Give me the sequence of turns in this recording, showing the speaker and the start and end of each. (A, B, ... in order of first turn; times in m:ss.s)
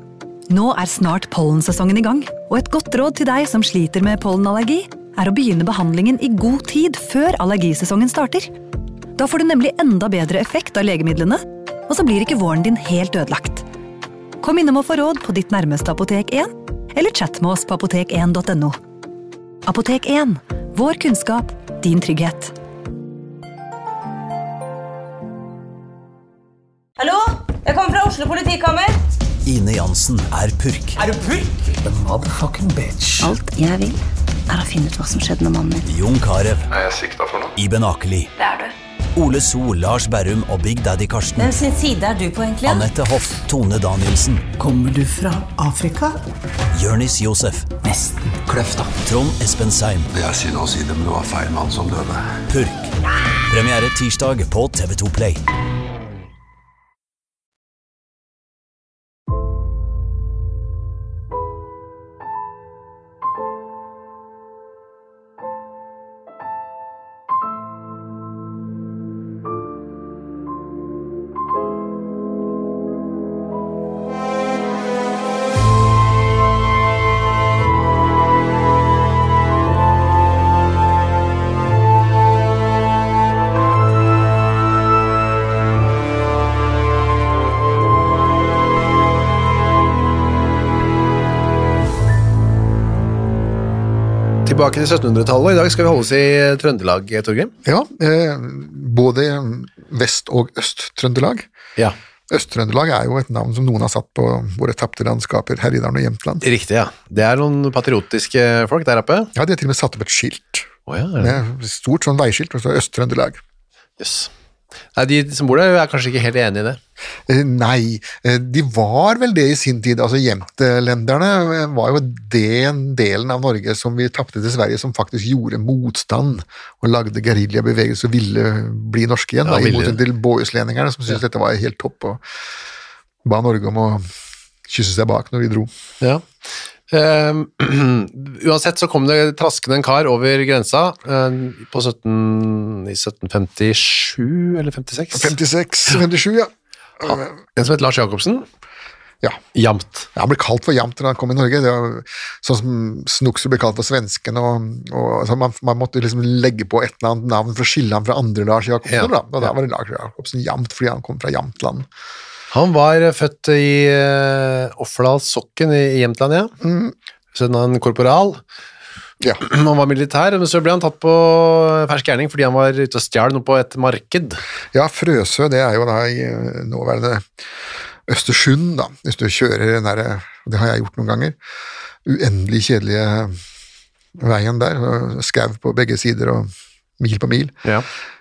0:00.5-0:08.5 A
0:09.2-0:13.6 A
0:14.4-0:18.8 A
0:19.7-0:22.5 A
0:27.0-0:29.0 B
0:29.4-0:31.0 C
0:31.1-0:33.3 D
0:33.2-0:35.9 E
0:35.8-0:36.7 C
0:36.7-0:37.5 F
0:37.6-0:38.3 C
0:38.4-0:38.7 B
0:39.2-0:41.5 C
0:41.4-0:42.9 B
0:42.7-0:44.5 C
0:44.6-0:46.2 D
0:46.7-0:47.7 C
0:47.8-0:48.9 D
0:49.0-0:50.1 C
0:50.1-0:52.3 F
0:52.5-0:52.9 C
0:53.5-0:55.4 C
1:34.5-1:37.5 G
1:37.6-1:41.5 H
1:42.3-1:46.4 H
1:46.4-1:49.3 G
1:49.4-1:53.4 H
1:50.9-1:51.4 G
1:54.0-1:54.3 G
1:55.0-1:56.8 G
1:57.3-2:12.2 H
2:09.4-2:10.0 G
2:13.2-2:14.0 H
2:14.7-2:15.7 H
2:16.9-2:25.3 G
2:25.1-2:27.3 H
2:27.6-2:28.5 G
2:29.6-2:30.1 G
2:30.2-2:41.9 H
2:38.9-2:39.5 G
2:42.5-2:46.5 G
2:46.6-2:46.9 H
2:47.3-2:48.4 G
2:49.4-2:54.4 G
2:54.7-2:57.3 H
2:58.1-3:01.4 H
3:02.0-3:03.4 H
3:04.2-3:07.7 H